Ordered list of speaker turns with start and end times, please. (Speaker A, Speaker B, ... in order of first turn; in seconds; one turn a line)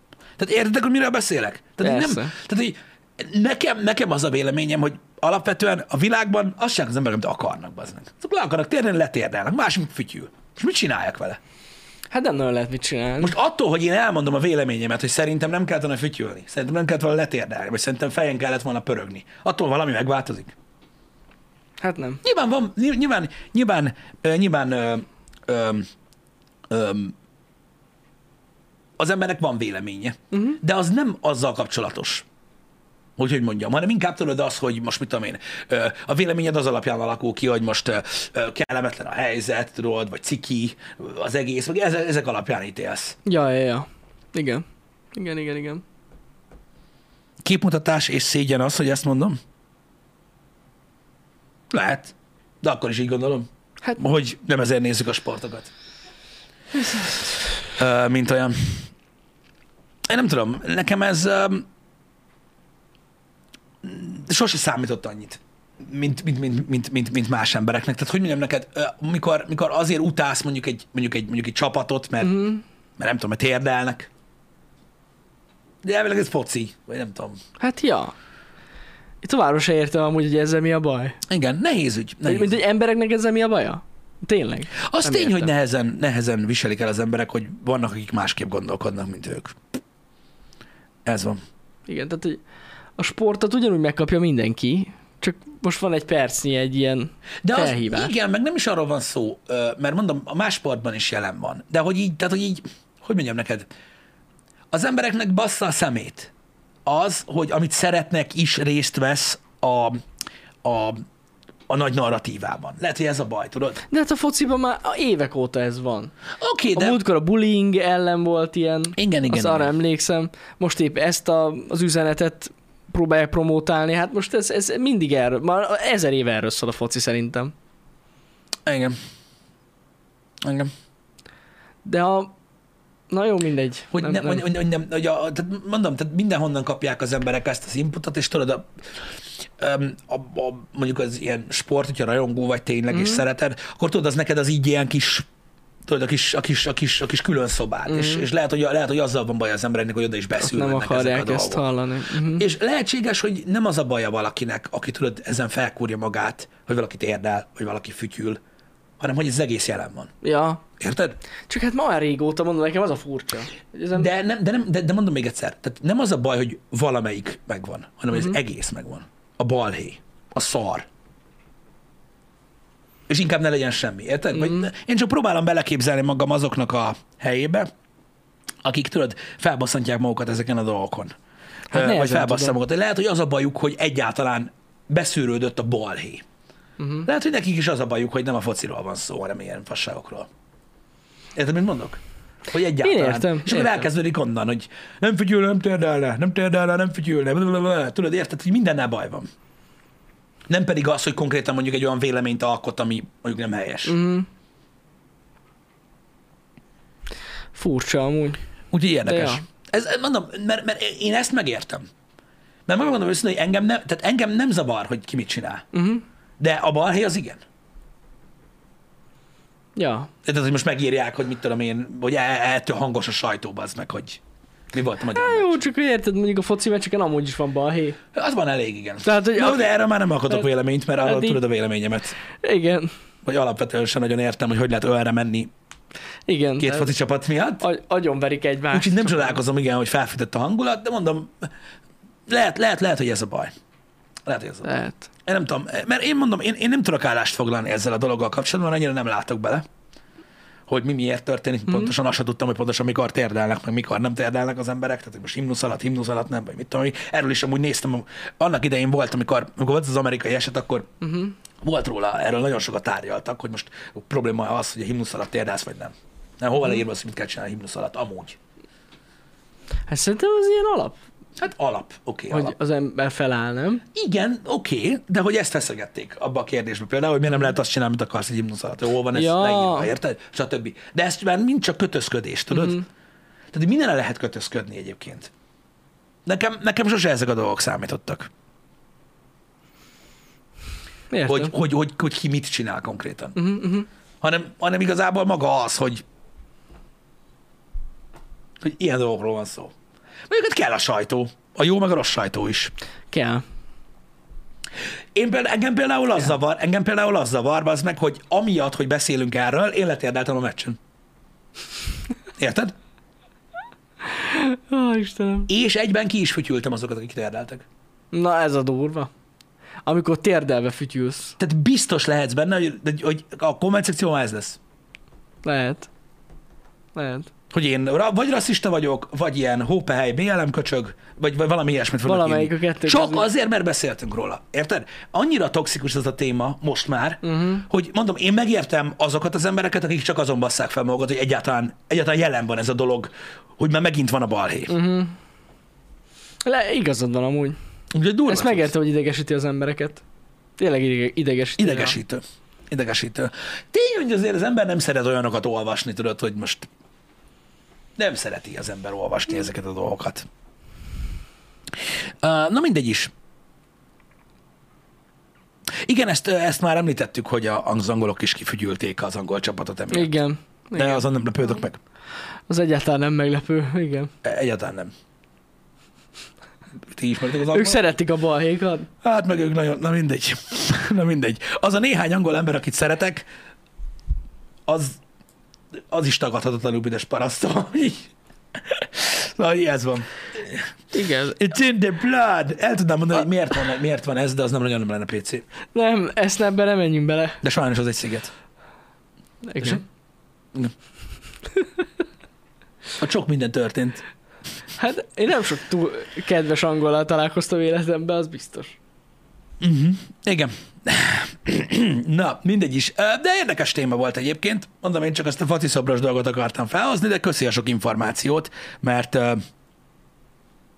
Speaker A: 0.4-11.4
Speaker B: 1.8-2.3
Speaker B: 12.1-13.4
Speaker A: 13.2-20.5
Speaker B: 21.8-22.2
Speaker A: 22.2-25.9
Speaker A: 26.7-27.1
Speaker A: 29.0-32.2
Speaker B: 30.3-30.6
Speaker A: 33.2-43.2
Speaker B: 43.2-45.8
Speaker A: 47.4-49.4
Speaker A: 51.7-55.7
Speaker A: 57.8-58.9
Speaker A: 60.1-61.7
Speaker A: 63.8-74.1
Speaker B: 72.2-72.6
Speaker A: 75.8-77.4
Speaker B: 77.6-78.1
Speaker B: 79.2-81.2
Speaker A: 81.3-82.5
Speaker B: 82.2-85.5
Speaker A: 84.8-89.6
Speaker A: 91.0-91.4
Speaker B: 91.9-92.4
Speaker B: 93.0-98.1
Speaker A: 97.4-103.7
Speaker A: 104.7-106.3
Speaker A: 106.9-110.0
Speaker A: 110.6-111.0
Speaker A: 111.7-113.8
Speaker B: 113.9-116.1
Speaker A: 116.4-117.0
Speaker B: 116.7-127.5
Speaker A: 119.0-119.7
Speaker A: 128.7-129.0
Speaker A: 130.4-130.7
Speaker B: 131.8-132.3
Speaker B: 133.1-134.4
Speaker A: 133.9-138.7
Speaker A: 139.6-145.3
Speaker B: 142.9-143.2
Speaker A: 145.9-151.6
Speaker B: 147.9-148.3
Speaker B: 150.4-152.4
Speaker A: 152.2-158.4
Speaker A: 159.0-160.1
Speaker B: 160.2-160.6
Speaker A: 160.8-161.2
Speaker B: 161.5-164.1
Speaker A: 163.9-170.9
Speaker A: 173.1-177.7
Speaker B: 174.4-174.7
Speaker A: 178.6-181.1
Speaker B: 181.7-182.6
Speaker A: 181.7-186.2
Speaker B: 186.8-187.1
Speaker A: 187.0-190.3
Speaker A: 191.3-199.3
Speaker B: 192.8-193.9
Speaker A: 200.5-204.0
Speaker B: 203.9-204.3
Speaker B: 207.5-208.4
Speaker A: 208.7-211.9
Speaker B: 209.1-209.4
Speaker A: 212.7-215.7
Speaker B: 215.7-216.0
Speaker A: 216.4-217.4
Speaker B: 219.8-220.1
Speaker A: 220.2-224.2
Speaker A: 224.7-225.6
Speaker B: 225.1-228.0
Speaker A: 228.1-232.2
Speaker B: 229.0-229.7
Speaker B: 231.0-231.4
Speaker B: 232.4-232.9
Speaker A: 233.2-235.5
Speaker B: 236.3-236.9
Speaker A: 236.6-237.6
Speaker B: 237.6-239.4
Speaker A: 238.7-241.5
Speaker A: 242.3-243.5
Speaker A: 244.3-244.7
Speaker B: 244.6-245.1
Speaker A: 245.3-249.6
Speaker A: 250.7-260.9
Speaker B: 261.0-261.3
Speaker A: 261.6-268.4
Speaker B: 269.9-271.0
Speaker A: 271.4-272.6
Speaker B: 272.3-273.8
Speaker A: 273.9-282.8
Speaker B: 279.1-279.9
Speaker B: 282.5-282.8
Speaker A: 283.5-285.3
Speaker A: 286.3-288.3
Speaker B: 291.1-291.5
Speaker A: 291.2-293.4
Speaker B: 293.4-293.9
Speaker A: 294.2-296.0
Speaker A: 298.6-299.7
Speaker A: 300.3-302.7
Speaker B: 303.1-303.4
Speaker A: 305.1-310.8
Speaker A: 312.4-312.7
Speaker B: 314.1-315.5
Speaker A: 315.5-317.6
Speaker B: 318.1-319.1
Speaker B: 319.8-321.4
Speaker A: 321.4-324.6
Speaker B: 325.4-325.9
Speaker B: 326.9-327.3
Speaker A: 327.5-344.8
Speaker B: 332.1-333.3
Speaker B: 337.2-337.6
Speaker B: 344.7-345.2
Speaker B: 346.4-347.6
Speaker A: 347.9-348.7
Speaker B: 348.3-350.0
Speaker B: 350.6-351.9
Speaker A: 351.6-356.7
Speaker A: 358.0-360.3
Speaker A: 362.2-363.1
Speaker A: 365.8-370.1
Speaker B: 369.9-371.1
Speaker A: 370.7-371.8
Speaker B: 372.5-374.1
Speaker A: 374.2-374.9
Speaker A: 376.9-377.8
Speaker B: 377.5-378.9
Speaker A: 379.0-383.3
Speaker A: 384.7-385.0
Speaker A: 385.9-388.1
Speaker A: 388.7-390.6
Speaker B: 390.9-391.4
Speaker A: 391.2-395.4
Speaker B: 395.7-397.4
Speaker A: 397.4-398.3
Speaker B: 399.4-399.8
Speaker A: 403.0-404.0
Speaker B: 404.8-408.8
Speaker A: 409.6-419.4